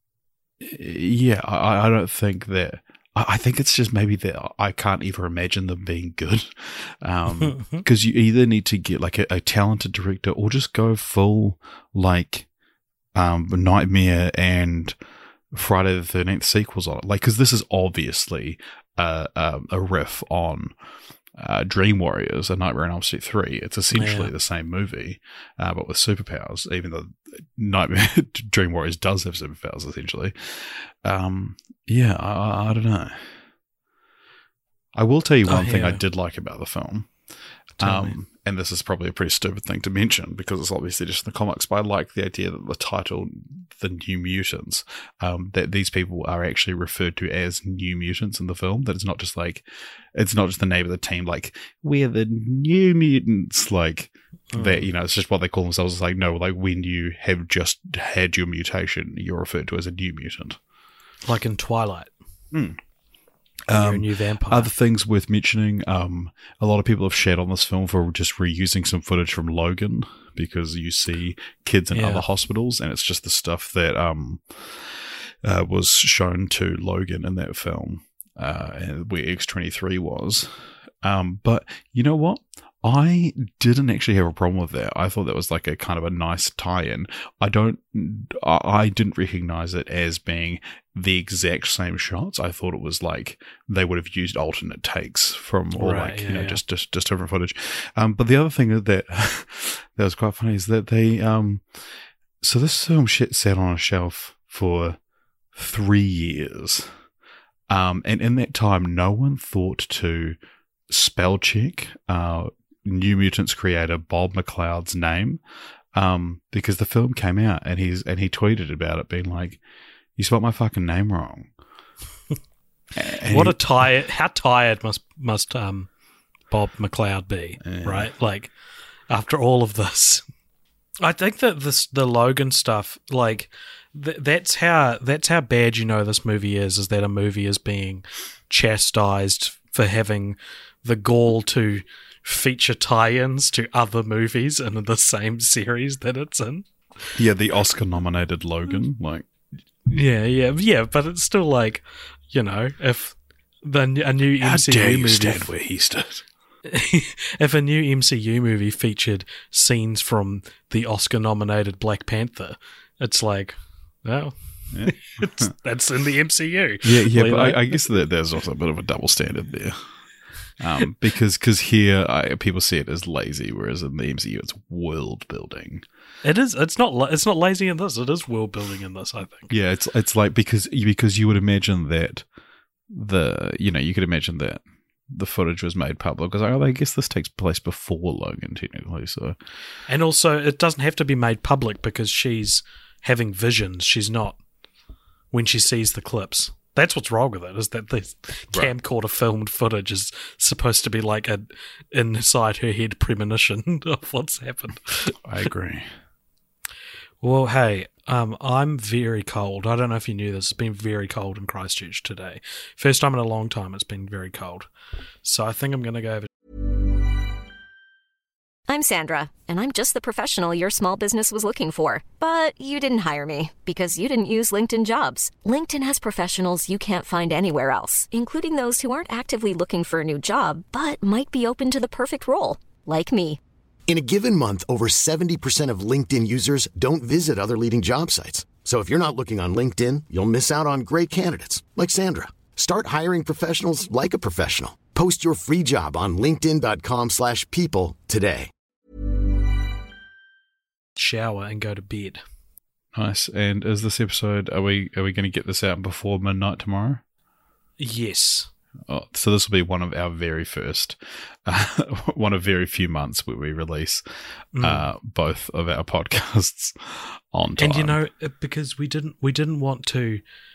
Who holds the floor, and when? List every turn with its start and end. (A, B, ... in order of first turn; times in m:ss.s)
0:00.6-0:12.5 A
0:13.1-0:15.0 A
0:15.5-0:20.7 A
0:21.4-0:33.4 A
0:23.9-0:24.3 B
0:34.9-0:37.2 A
0:35.4-0:36.0 B
0:37.8-0:38.2 B
0:37.8-1:00.6 A
0:54.5-0:54.9 B
1:01.2-1:02.1 B
1:02.5-1:02.8 A
1:03.7-1:41.9 A
1:03.7-1:04.7 B
1:11.9-1:12.2 B
1:35.7-1:36.6 B
1:42.4-1:45.0 A
1:45.5-1:47.0 A
1:47.7-1:50.4 A
1:50.9-1:55.4 A
1:55.9-1:59.6 A
2:00.2-2:01.5 A
2:02.9-2:03.6 A
2:03.3-2:05.9 B
2:06.5-2:08.5 B
2:07.6-2:08.1 A
2:09.1-2:10.2 B
2:11.0-2:26.7 B
2:27.2-2:29.3 A
2:29.9-2:35.5 B
2:34.4-2:36.2 A
2:36.7-2:47.8 B
2:44.7-2:45.5 A
2:46.8-2:55.8 A
2:56.2-2:59.5 B
2:59.5-3:02.2 A
3:02.9-3:09.4 A
3:09.9-3:14.4 B
3:15.3-3:25.2 B
3:25.2-3:25.9 A
3:27.2-3:34.7 B
3:35.2-3:36.3 B
3:38.7-3:53.4 C
3:53.9-4:08.5 D
4:11.0-4:12.2 B
4:12.9-4:17.0 A
4:17.8-4:18.5 B
4:18.9-4:24.0 A
4:24.5-4:24.9 B
4:24.6-4:28.0 A
4:27.6-4:30.2 B